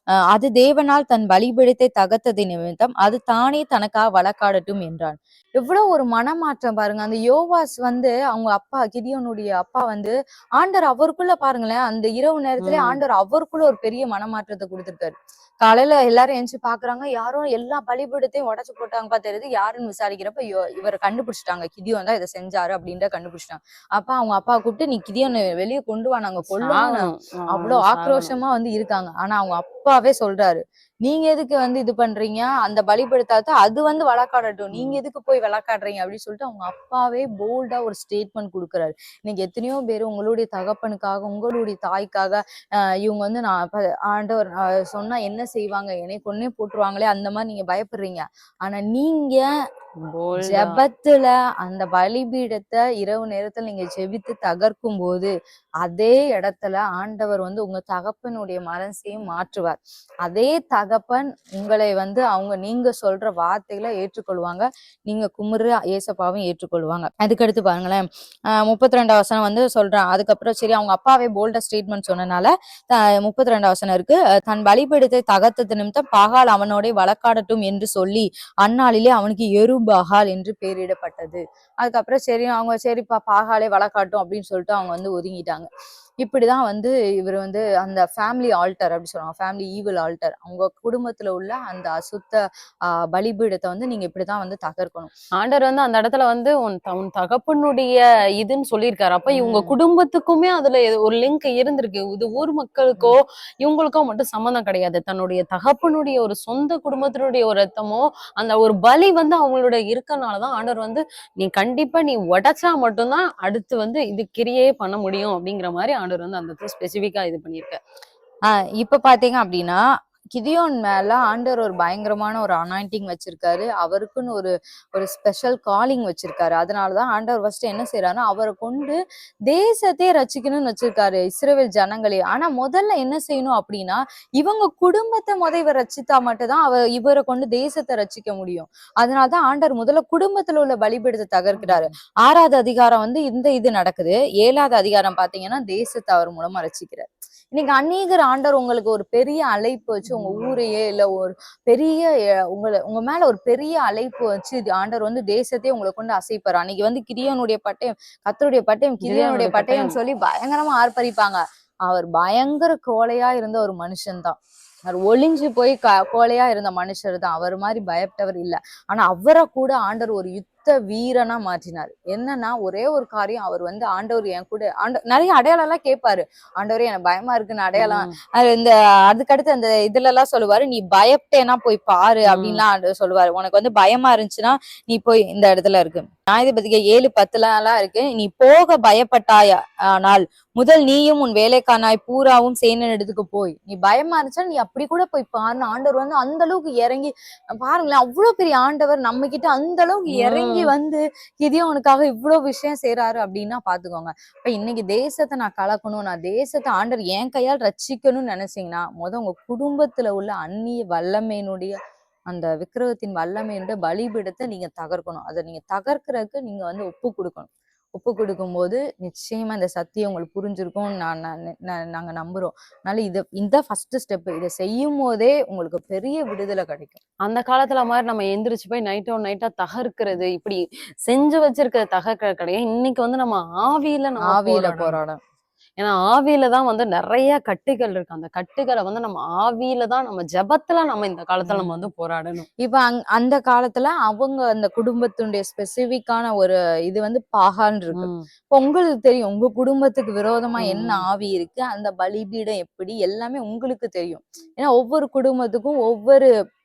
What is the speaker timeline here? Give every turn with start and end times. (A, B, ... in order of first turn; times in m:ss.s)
0:00.3-0:42.4 A
0:12.6-0:13.0 B
0:26.5-0:28.3 B
0:43.0-0:49.4 A
0:50.0-0:50.8 B
0:50.4-0:55.3 A
0:55.8-1:25.7 A
1:26.2-1:32.4 A
1:32.9-1:35.1 A
1:35.4-1:57.8 B
1:39.3-1:39.7 A
1:58.6-1:59.8 A
2:00.3-2:09.0 A
2:09.5-2:44.3 A
2:21.6-2:21.9 B
2:30.1-2:30.6 B
2:39.0-2:39.9 B
2:44.9-3:31.8 A
2:57.8-2:58.1 B
3:02.3-3:02.6 B
3:20.1-3:20.7 B
3:32.3-3:47.0 A
3:47.2-3:55.0 B
3:54.2-3:55.2 A
3:55.8-4:02.4 B
4:01.4-4:01.8 A
4:02.6-4:16.3 A
4:07.9-4:08.2 B
4:10.6-4:11.0 B